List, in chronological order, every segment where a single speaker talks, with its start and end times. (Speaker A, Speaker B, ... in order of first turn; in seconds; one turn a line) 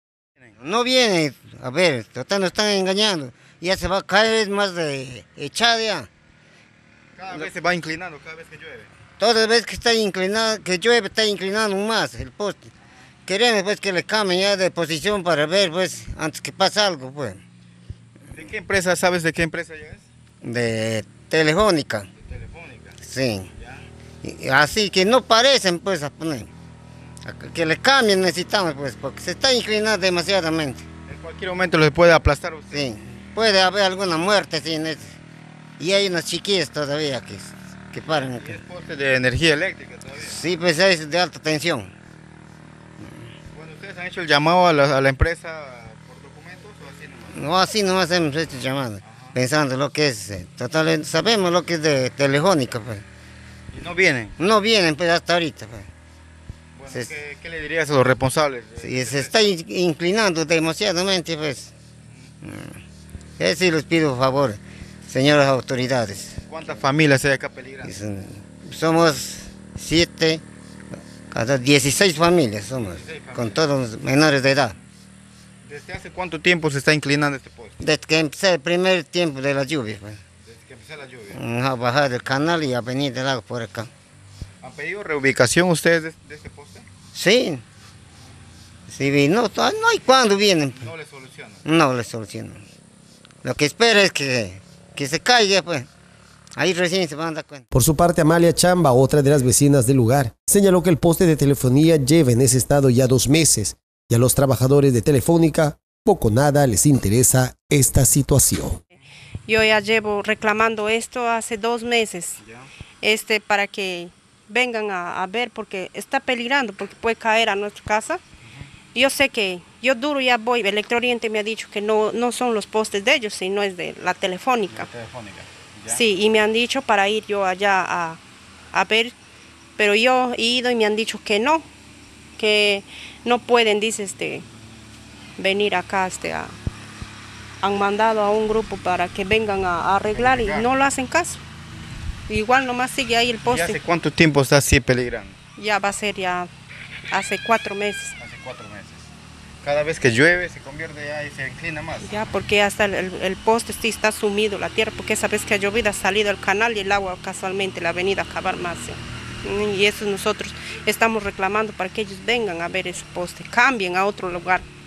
Speaker A: 0.6-6.1
Speaker B: 7.2-8.9
Speaker A: 9.2-12.7
Speaker A: 13.3-17.4
Speaker B: 18.3-20.1
Speaker A: 20.4-22.1
Speaker B: 22.2-23.0
Speaker A: 23.0-23.5
Speaker B: 23.5-23.9
Speaker A: 24.2-26.5
Speaker A: 27.2-30.9
Speaker B: 31.1-32.9
Speaker A: 32.7-35.1
Speaker A: 35.8-38.6
Speaker B: 38.0-40.5
Speaker A: 40.2-41.9
Speaker B: 43.5-47.5
Speaker A: 47.3-53.0
Speaker B: 49.0-49.4
Speaker B: 53.7-54.4
Speaker A: 54.4-55.9
Speaker B: 56.7-59.4
Speaker A: 58.8-61.7
Speaker A: 62.4-62.8
Speaker A: 63.4-66.5
Speaker B: 66.5-67.9
Speaker A: 67.8-70.4
Speaker A: 71.3-74.8
Speaker B: 72.8-73.6
Speaker B: 75.6-77.8
Speaker A: 77.8-80.2
Speaker B: 80.4-81.4
Speaker A: 81.3-83.9
Speaker B: 84.6-86.8
Speaker A: 87.1-87.6
Speaker A: 88.9-90.9
Speaker B: 90.8-91.6
Speaker A: 91.6-92.6
Speaker A: 93.4-95.9
Speaker A: 96.5-97.6
Speaker C: 97.7-108.8
Speaker D: 109.5-112.4
Speaker D: 113.0-118.2
Speaker D: 118.9-124.9
Speaker B: 124.7-126.0
Speaker D: 125.9-128.2
Speaker D: 128.7-129.1
Speaker D: 129.8-131.6
Speaker D: 132.4-134.4
Speaker D: 135.4-136.5
Speaker D: 137.6-141.4
Speaker B: 140.1-140.7
Speaker D: 142.3-143.8
Speaker B: 143.4-145.3
Speaker D: 145.6-146.5
Speaker D: 147.1-148.1
Speaker B: 148.2-149.0
Speaker B: 149.6-152.1
Speaker D: 152.0-164.6